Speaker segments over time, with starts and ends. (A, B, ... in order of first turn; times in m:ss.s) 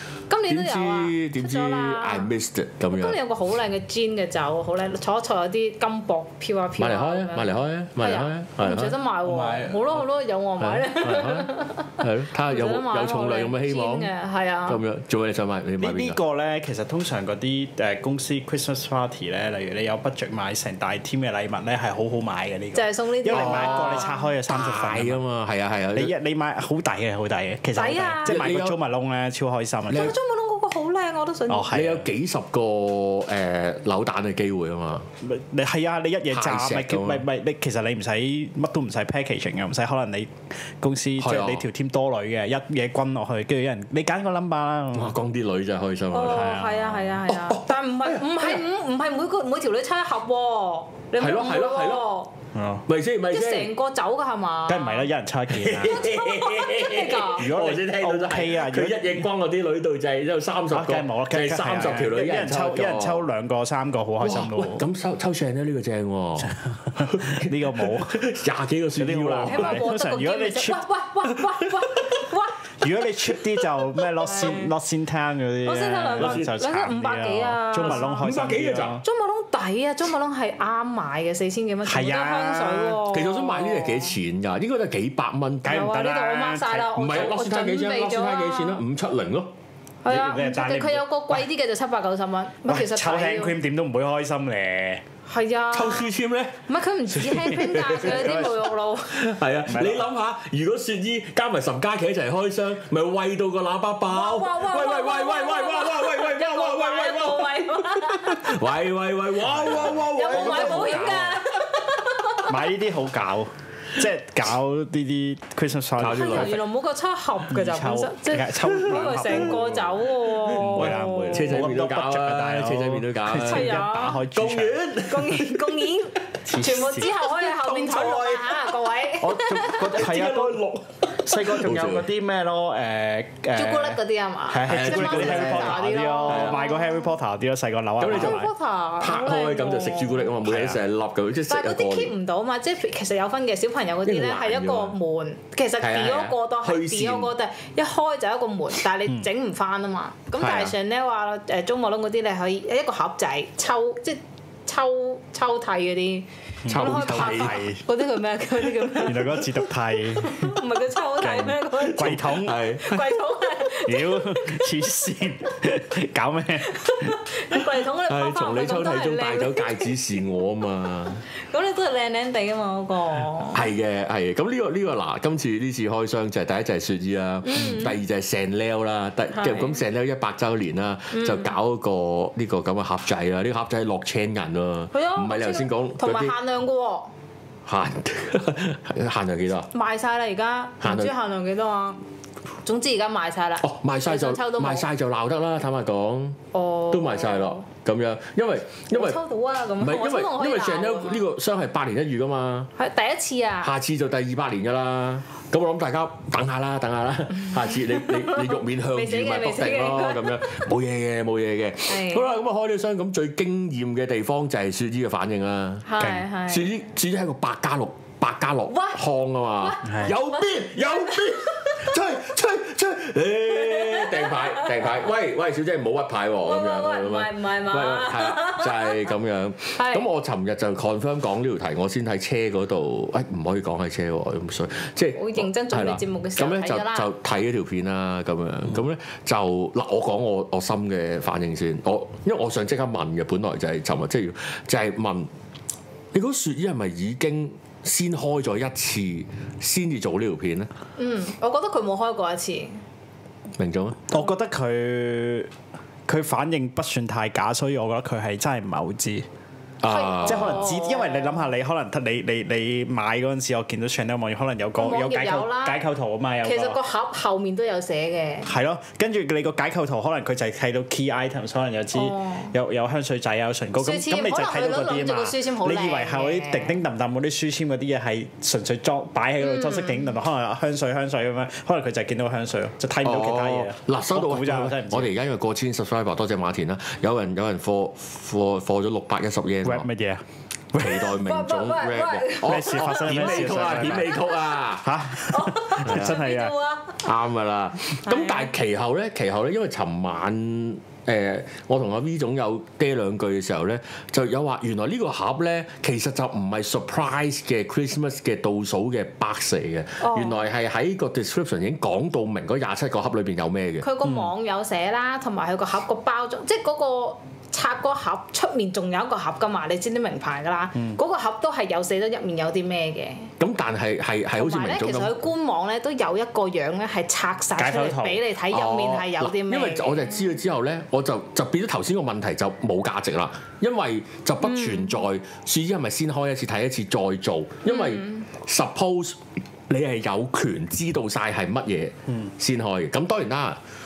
0:00.3-0:02.3 A
0:00.5-0:03.2 B
0:02.9-0:14.8 A
0:06.8-0:09.0 B
0:09.2-0:10.0 C
0:10.6-0:14.1 B
0:14.7-0:16.2 B
0:15.8-0:25.2 C
0:22.7-0:24.3 A
0:23.3-0:26.1 B
0:25.9-0:30.1 C
0:27.8-0:28.3 A
0:28.2-0:28.8 B
0:29.9-0:31.7 A
0:31.5-0:32.0 C
0:31.7-0:35.1 B
0:35.2-0:45.1 C
0:36.3-0:37.2 B
0:41.2-0:41.6 B
0:44.9-0:46.5 B
0:46.1-0:52.3 A
0:46.3-0:47.2 C
0:47.3-0:48.6 B
0:51.2-0:52.1 B
0:52.5-0:52.8 C
0:52.8-0:53.7 B
0:53.3-0:55.1 A
0:54.7-0:56.1 C
0:55.5-1:03.3 B
0:55.9-0:57.5 A
0:57.3-0:59.2 C
1:00.7-1:04.8 C
1:04.2-1:09.9 B
1:06.5-1:08.2 C
1:08.9-1:10.8 C
1:09.4-1:12.6 A
1:12.8-1:19.0 C
1:14.2-1:14.7 A
1:15.6-1:18.3 A
1:16.2-1:16.5 B
1:17.7-1:19.0 B
1:19.0-1:24.2 A
1:21.8-1:23.0 C
1:23.0-1:25.9 B
1:25.6-1:27.1 C
1:25.6-1:28.8 A
1:26.9-1:29.5 B
1:30.0-1:33.6 A
1:30.1-1:31.4 C
1:32.7-1:35.0 C
1:35.2-1:36.1 A
1:35.7-1:36.6 B
1:36.7-1:39.3 A
1:37.1-1:51.2 B
1:38.0-1:38.5 C
1:39.7-1:40.0 C
1:44.1-1:48.6 A
1:49.4-1:51.4 C
1:49.9-1:52.6 A
1:52.4-1:56.6 C
1:56.0-1:56.6 B
1:56.1-2:01.5 A
1:57.5-2:04.9 C
2:00.5-2:05.7 B
2:03.3-2:04.2 A
2:05.0-2:09.7 A
2:06.4-2:07.1 C
2:07.5-2:08.5 B
2:07.7-2:08.4 C
2:09.2-2:18.5 C
2:09.6-2:12.1 B
2:13.6-2:17.1 A
2:14.6-2:16.6 B
2:18.0-2:18.4 B
2:18.1-2:20.3 A
2:19.0-2:22.1 B
2:20.4-2:20.8 C
2:21.5-2:39.5 A
2:24.0-2:25.0 B
2:25.8-2:27.3 B
2:30.4-2:30.7 C
2:36.6-2:37.8 C
2:36.7-2:37.6 B
2:39.0-2:43.0 C
2:40.2-2:44.6 A
2:41.9-2:42.9 B
2:43.8-2:47.2 C
2:46.8-2:49.9 A
2:48.1-2:51.2 B
2:51.4-2:53.7 A
2:53.5-3:06.4 B
2:57.4-2:58.0 A
2:59.3-2:59.8 A
3:01.1-3:01.5 A
3:04.9-3:07.1 A
3:07.6-3:09.7 B
3:09.7-3:12.0 A
3:10.8-3:11.1 B
3:12.6-3:14.8 A
3:13.6-3:16.4 B
3:16.5-3:17.6 A
3:16.9-3:19.2 B
3:18.9-3:21.3 A
3:19.8-3:22.7 B
3:22.8-3:23.7 A
3:23.6-4:05.3 B
3:28.0-3:30.6 A
3:31.9-3:32.3 A
3:35.8-3:36.7 A
3:36.0-3:36.2 C
3:38.7-3:39.0 A
3:39.6-3:41.9 A
3:39.8-3:40.1 C
3:43.6-3:45.0 A
3:46.4-3:49.1 A
3:49.8-3:50.0 A
3:55.1-3:57.1 A
4:06.1-4:10.7 B
4:11.0-4:12.8 A
4:13.6-4:14.0 B
4:14.1-4:15.5 C
4:16.1-4:19.2 C
4:19.8-4:20.7 B
4:19.8-4:21.5 A
4:20.2-4:26.8 C
4:24.8-4:25.8 A
4:26.4-4:28.5 A
4:28.4-4:45.1 C
4:31.9-4:32.5 A
4:33.8-4:36.8 A
4:39.4-4:40.1 A
4:43.0-4:49.9 B
4:49.6-4:51.1 C
4:50.7-4:54.9 B
4:51.0-4:54.5 A
4:52.4-4:54.2 C
4:54.8-4:56.5 C
4:55.1-4:57.0 A
4:55.8-4:56.2 B
4:57.0-5:13.9 B
4:58.0-4:58.5 A
5:10.0-5:10.4 A
5:13.8-5:23.3 A
5:14.0-5:14.3 C
5:23.4-5:25.2 B
5:24.4-5:30.1 A
5:27.6-5:28.2 C
5:28.5-5:43.6 B
5:34.4-5:35.0 A
5:37.6-5:38.3 A